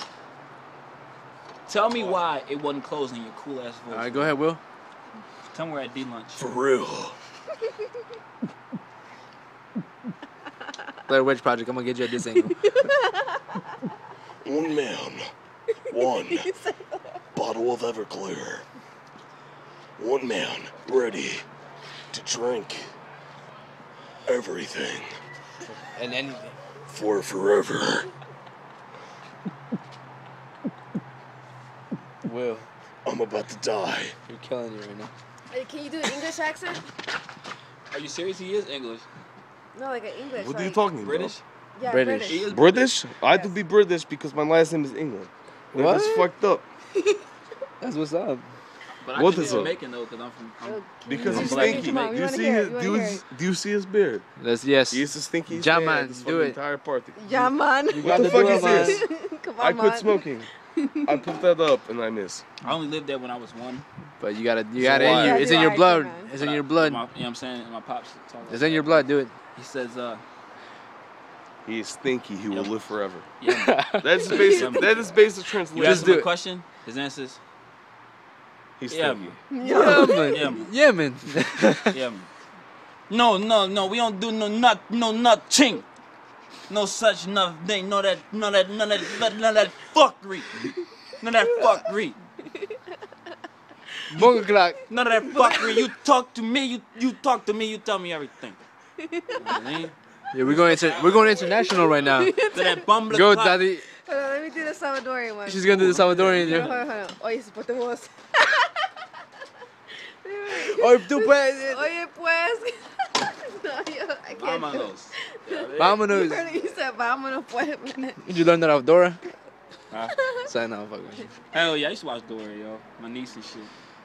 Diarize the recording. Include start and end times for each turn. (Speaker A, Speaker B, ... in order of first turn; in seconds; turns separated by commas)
Speaker A: 1.7-4.3, Speaker B: 1.8-2.2, Speaker C: 3.9-4.6, Speaker A: 5.5-6.4, Speaker B: 6.4-7.2, Speaker C: 11.1-12.7, Speaker D: 12.8-13.6, Speaker B: 14.4-15.2, Speaker B: 15.9-16.5, Speaker D: 16.1-17.1, Speaker B: 17.3-18.6, Speaker B: 20.0-21.4, Speaker B: 22.1-22.9, Speaker B: 24.2-25.1, Speaker C: 25.8-26.6, Speaker B: 26.9-28.1, Speaker C: 32.2-32.7, Speaker B: 33.0-34.1, Speaker C: 34.3-35.1, Speaker D: 35.5-36.8, Speaker A: 37.9-39.0, Speaker D: 39.7-40.8, Speaker B: 40.4-41.3, Speaker A: 41.0-41.4, Speaker D: 41.7-42.5, Speaker C: 41.8-42.4, Speaker A: 42.2-42.9, Speaker B: 42.4-46.6, Speaker D: 43.2-43.5, Speaker C: 45.7-46.3, Speaker C: 47.8-48.5, Speaker A: 49.0-52.1, Speaker B: 49.1-49.7, Speaker D: 49.4-49.7, Speaker D: 50.6-53.2, Speaker B: 51.0-54.2, Speaker C: 54.4-56.6, Speaker B: 54.9-59.0, Speaker D: 57.1-61.2, Speaker C: 57.9-59.0, Speaker B: 59.6-60.5, Speaker B: 61.0-62.4, Speaker A: 62.6-63.8, Speaker C: 64.2-67.0, Speaker A: 64.8-65.7, Speaker D: 65.0-66.3, Speaker A: 66.3-70.2, Speaker C: 68.5-69.3, Speaker B: 71.6-73.3, Speaker A: 72.5-72.7, Speaker A: 73.4-73.8, Speaker C: 73.5-74.4, Speaker B: 74.0-76.2, Speaker A: 74.4-75.1, Speaker A: 75.7-77.4, Speaker C: 75.8-76.3, Speaker B: 78.8-79.4, Speaker A: 78.9-80.7, Speaker D: 79.5-80.5, Speaker C: 79.6-81.9, Speaker A: 81.9-82.3, Speaker A: 83.1-85.9, Speaker A: 86.7-92.2, Speaker C: 94.1-94.8, Speaker A: 94.9-98.6, Speaker D: 99.0-99.4, Speaker A: 99.3-99.9, Speaker C: 100.3-102.4, Speaker A: 100.5-101.3, Speaker D: 101.2-102.8, Speaker A: 102.5-103.6, Speaker C: 103.1-103.8, Speaker D: 104.0-105.8, Speaker C: 105.5-106.7, Speaker A: 105.7-106.8, Speaker D: 106.4-108.9, Speaker D: 110.2-118.2, Speaker C: 110.5-111.9, Speaker A: 114.3-116.0, Speaker C: 115.8-116.6, Speaker C: 118.2-119.2, Speaker A: 119.9-120.2, Speaker D: 120.2-120.5, Speaker C: 120.5-121.3, Speaker A: 121.5-123.7